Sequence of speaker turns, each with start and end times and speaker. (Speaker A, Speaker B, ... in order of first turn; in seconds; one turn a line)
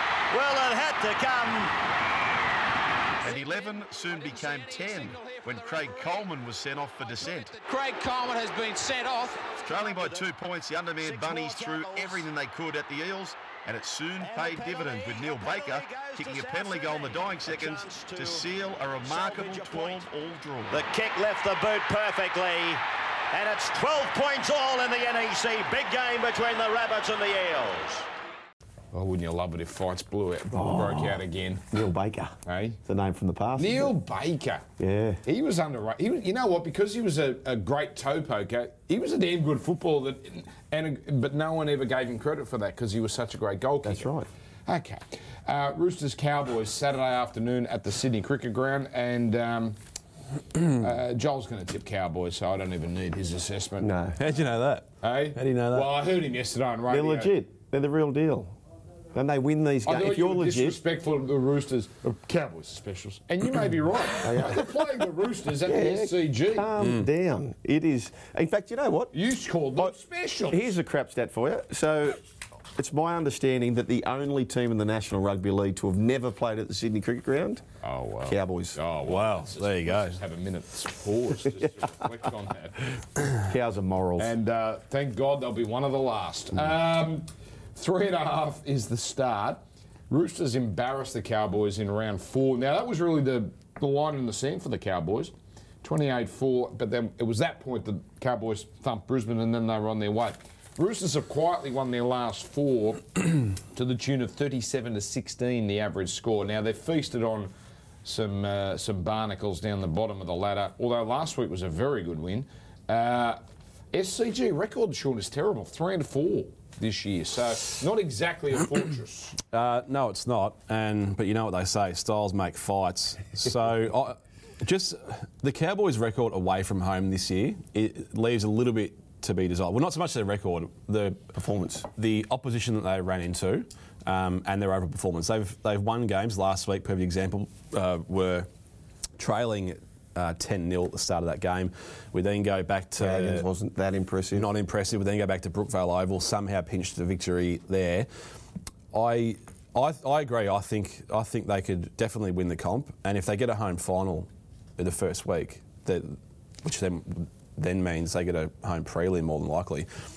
Speaker A: 0.3-1.8
Speaker B: 3.2-7.6
Speaker A: 3.2-3.5
Speaker C: 4.3-5.4
Speaker A: 5.3-6.0
Speaker C: 7.6-9.3
Speaker A: 9.4-10.3
Speaker B: 9.6-20.8
Speaker A: 11.0-12.3
Speaker A: 14.2-18.4
Speaker A: 19.0-20.1
Speaker A: 20.7-28.1
Speaker D: 28.9-31.6
Speaker E: 30.5-33.9
Speaker D: 32.5-32.8
Speaker D: 33.6-34.6
Speaker E: 34.8-35.2
Speaker D: 35.2-44.1
Speaker E: 43.8-44.3
Speaker D: 44.7-49.8
Speaker D: 50.6-53.9
Speaker E: 53.8-54.2
Speaker F: 54.2-55.9
Speaker D: 55.0-57.3
Speaker E: 56.9-58.5
Speaker E: 59.1-60.8
Speaker D: 59.9-66.7
Speaker E: 64.2-64.7
Speaker E: 65.6-69.1
Speaker D: 69.1-70.7
Speaker E: 70.5-72.2
Speaker E: 72.7-77.6
Speaker D: 77.8-83.0
Speaker E: 78.2-78.8
Speaker F: 79.0-80.2
Speaker E: 83.4-84.3
Speaker D: 84.2-107.5
Speaker D: 108.0-113.4
Speaker D: 113.9-119.4
Speaker F: 119.5-131.3
Speaker E: 131.3-131.9
Speaker F: 131.9-138.5
Speaker F: 139.2-143.4
Speaker E: 143.0-144.5
Speaker F: 144.3-148.1
Speaker F: 148.9-159.9